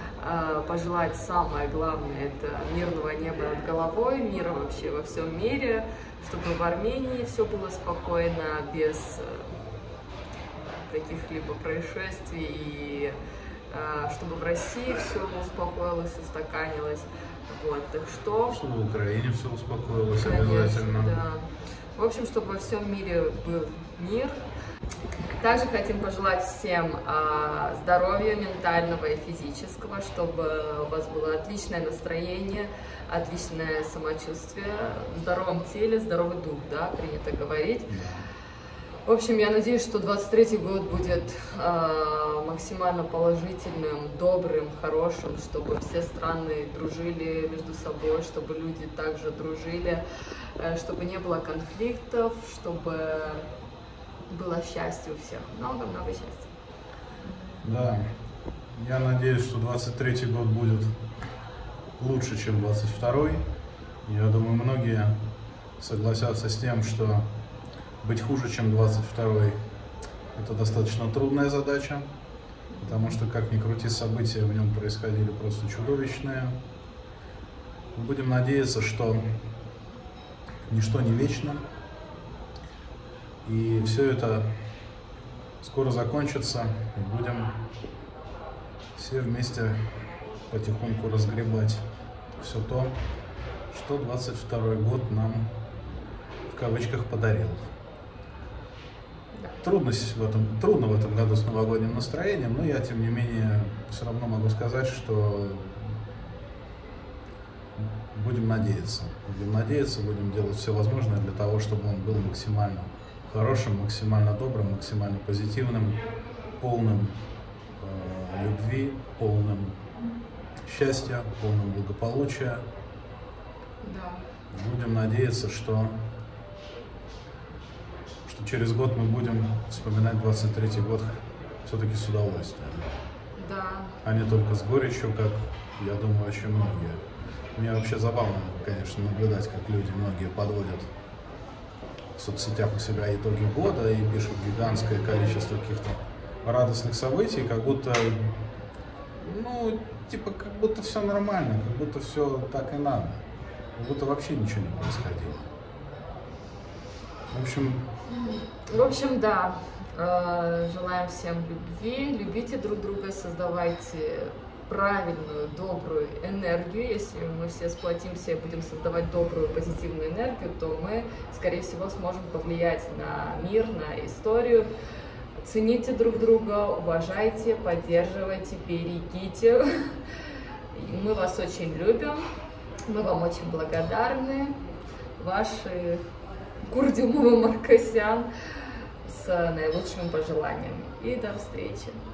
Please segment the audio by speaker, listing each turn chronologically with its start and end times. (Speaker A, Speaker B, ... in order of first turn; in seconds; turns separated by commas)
Speaker A: 0.2-9.5, Speaker A: 10.8-13.2, Speaker A: 13.7-18.6, Speaker B: 18.5-21.2, Speaker A: 20.2-24.4, Speaker A: 25.4-50.0, Speaker B: 37.9-38.3, Speaker A: 50.6-53.5, Speaker A: 54.3-56.5, Speaker B: 57.6-58.0, Speaker B: 58.7-61.0, Speaker B: 62.0-63.5, Speaker B: 64.0-65.2, Speaker B: 65.8-67.3, Speaker B: 68.0-69.6, Speaker B: 70.3-72.1, Speaker A: 72.7-73.2, Speaker B: 72.8-76.6, Speaker B: 77.9-79.4, Speaker B: 80.7-81.6, Speaker B: 83.4-84.5, Speaker B: 85.6-87.6, Speaker B: 89.0-91.9, Speaker B: 92.4-93.0, Speaker B: 93.7-95.5, Speaker B: 96.5-97.7, Speaker B: 99.6-106.0, Speaker B: 107.8-116.1, Speaker B: 116.6-117.2, Speaker B: 117.8-119.8, Speaker B: 120.7-122.7, Speaker A: 123.8-124.2, Speaker B: 124.5-126.0, Speaker B: 128.3-132.9, Speaker A: 133.4-134.0, Speaker B: 134.0-137.0, Speaker B: 137.6-140.9, Speaker B: 142.2-148.5, Speaker B: 149.2-153.2, Speaker B: 153.8-155.5, Speaker B: 157.3-157.9, Speaker A: 158.1-174.7, Speaker A: 175.4-180.0, Speaker A: 180.7-182.3, Speaker A: 182.9-184.6, Speaker A: 185.2-186.1, Speaker A: 186.6-188.3, Speaker A: 189.0-192.0